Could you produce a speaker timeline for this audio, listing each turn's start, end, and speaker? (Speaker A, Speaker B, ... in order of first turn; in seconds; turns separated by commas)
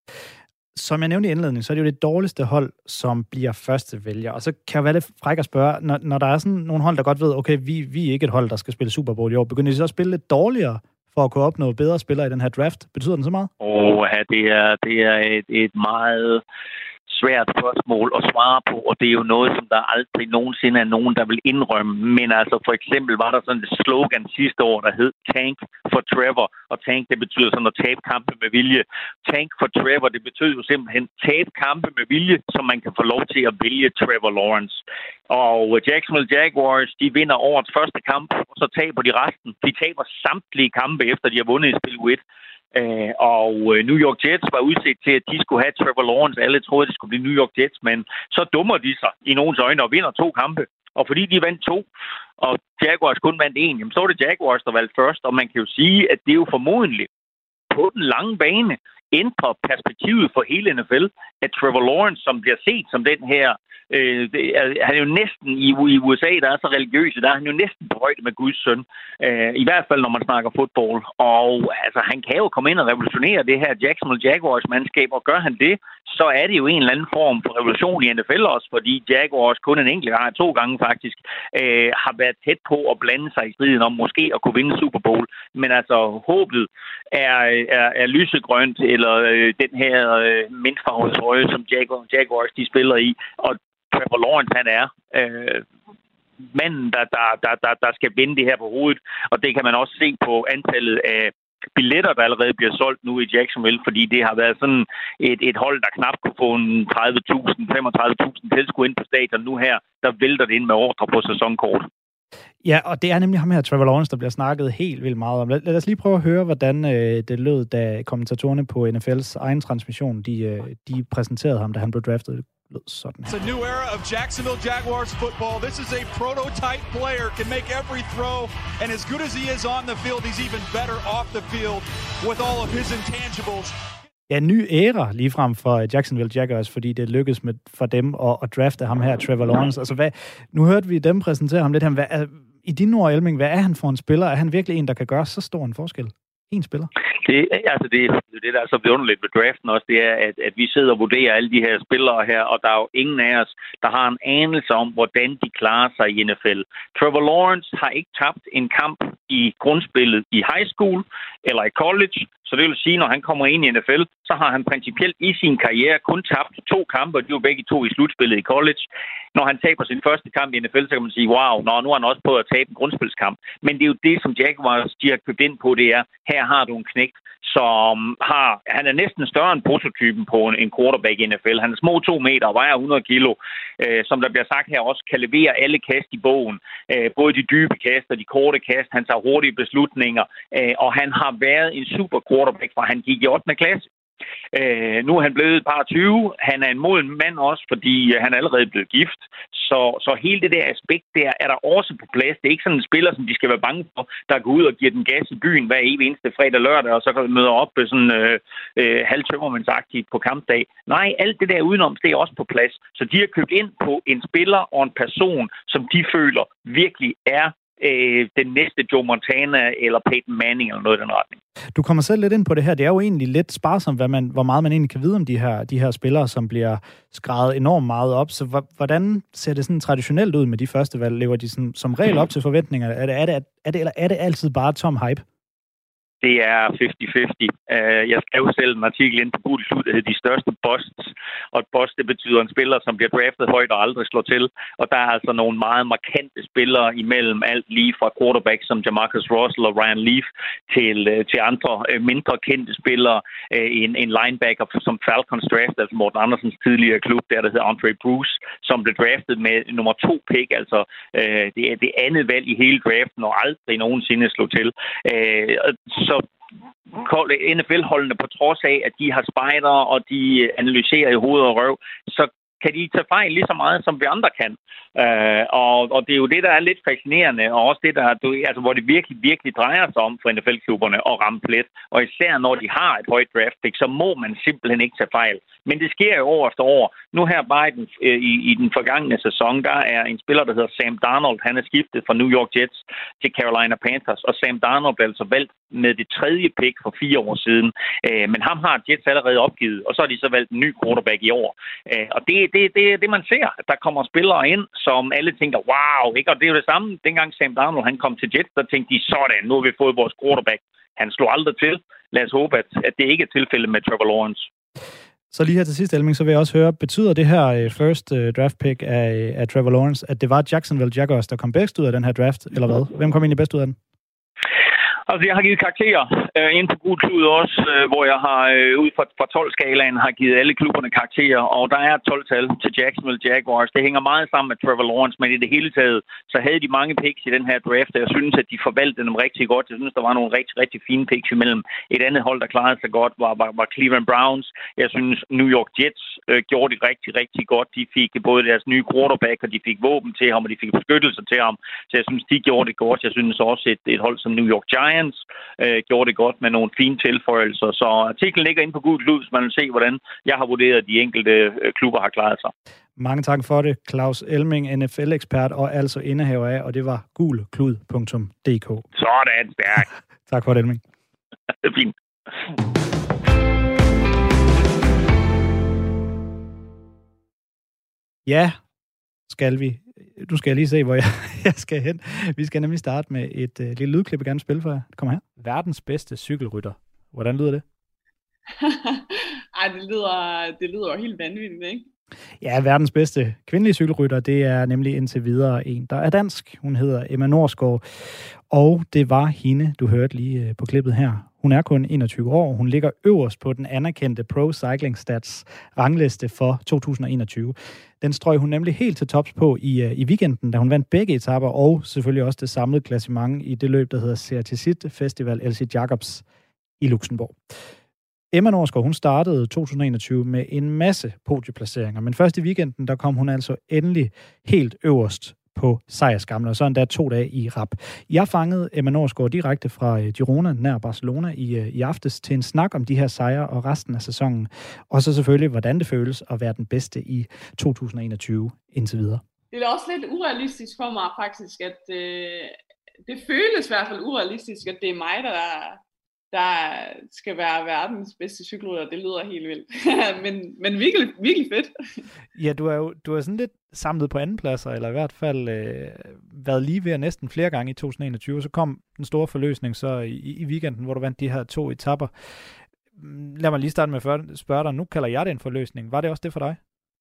Speaker A: 0.8-13.5, Speaker B: 13.6-16.4, Speaker B: 17.1-42.2, Speaker B: 42.7-51.9, Speaker B: 52.4-57.1, Speaker B: 57.7-95.7, Speaker B: 96.4-111.9, Speaker A: 112.6-123.3, Speaker C: 123.3-133.8, Speaker A: 134.3-146.9, Speaker B: 147.2-193.9, Speaker B: 194.5-221.4, Speaker A: 221.7-235.2, Speaker B: 236.2-266.2, Speaker B: 266.9-314.5, Speaker A: 315.3-323.8, Speaker B: 325.1-362.5, Speaker A: 363.0-368.9, Speaker B: 369.0-369.9, Speaker A: 370.3-370.8, Speaker B: 371.6-371.9, Speaker A: 378.3-378.6, Speaker A: 379.3-387.6, Speaker D: 388.6-391.9, Speaker A: 392.4-416.2, Speaker A: 416.8-417.4, Speaker A: 418.3-439.2, Speaker D: 439.5-445.8, Speaker D: 446.3-451.7, Speaker A: 452.4-462.1, Speaker A: 462.9-466.6